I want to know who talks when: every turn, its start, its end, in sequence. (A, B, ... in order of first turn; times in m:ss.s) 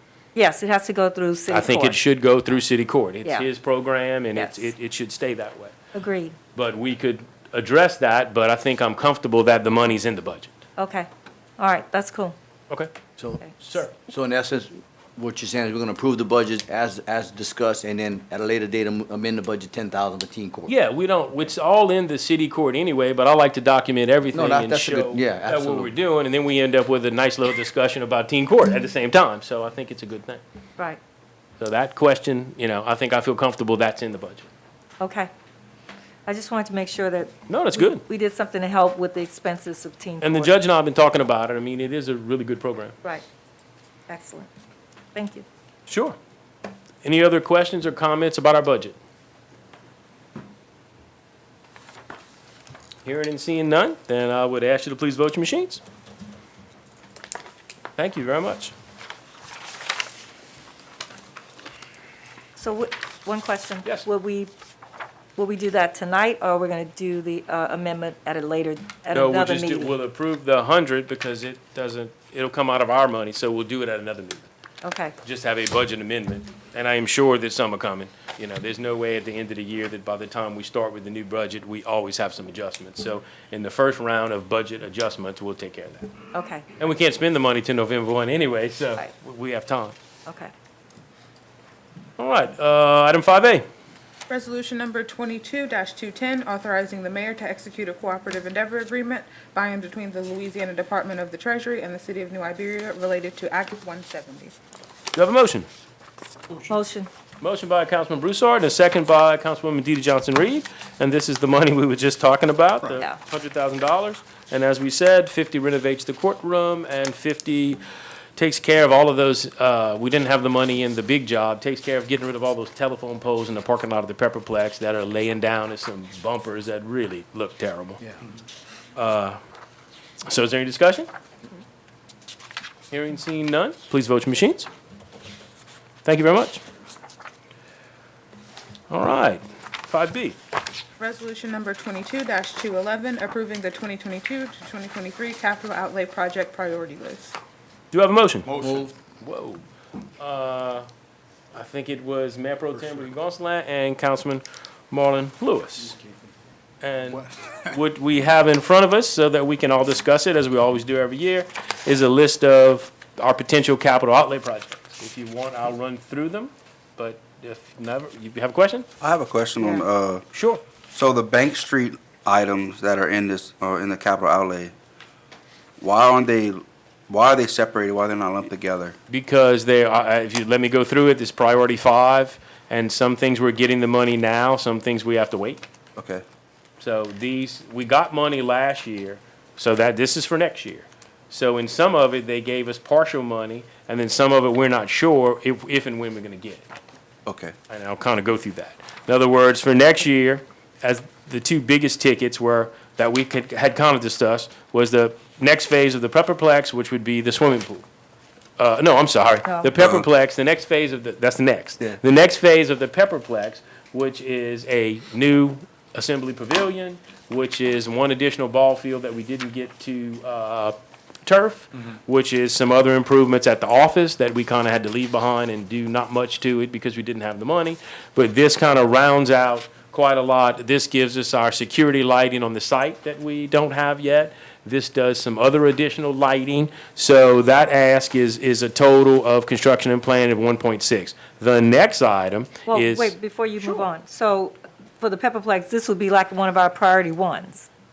0:00.3-0:02.0 A
0:01.5-0:05.7 B
0:04.3-0:04.7 A
0:05.9-0:06.4 A
0:06.5-0:10.5 B
0:10.8-0:12.4 A
0:12.7-0:12.9 B
0:13.2-0:20.7 C
0:13.6-0:13.9 B
0:20.7-0:30.4 B
0:24.3-0:25.9 C
0:31.6-0:34.5 B
0:35.0-0:35.3 A
0:36.2-0:40.5 A
0:37.5-0:38.0 B
0:40.2-0:43.0 B
0:44.1-0:44.5 A
0:45.1-0:45.4 A
0:45.9-0:46.2 B
0:47.0-0:49.0 B
0:53.0-0:55.8 B
0:58.0-0:58.7 B
1:02.6-1:04.5 A
1:05.4-1:09.9 A
1:09.1-1:14.5 B
1:14.8-1:15.2 A
1:15.2-1:26.1 B
1:26.3-1:26.6 A
1:26.8-1:29.9 B
1:30.2-1:30.5 A
1:32.2-1:33.6 B
1:34.3-1:44.6 D
1:45.1-1:45.7 B
1:46.7-1:47.1 A
1:47.4-1:57.8 B
1:58.4-2:08.0 B
2:09.0-2:09.4 B
2:10.2-2:11.1 B
2:12.9-2:14.7 B
2:16.0-2:16.6 B
2:18.9-2:20.4 B
2:21.0-2:27.4 D
2:27.9-2:29.6 B
2:30.2-2:30.9 B
2:31.5-2:36.0 B
2:36.8-2:48.9 B
2:49.0-2:50.2 E
2:50.3-2:50.6 B
2:50.9-2:54.7 E
2:55.8-2:58.9 E
2:59.1-3:05.6 B
3:06.0-3:06.2 E
3:06.8-3:16.6 B
3:17.2-3:17.5 E
3:17.7-3:27.8 B
3:28.6-4:03.1 B
3:29.8-3:30.0 E
4:02.7-4:07.7 A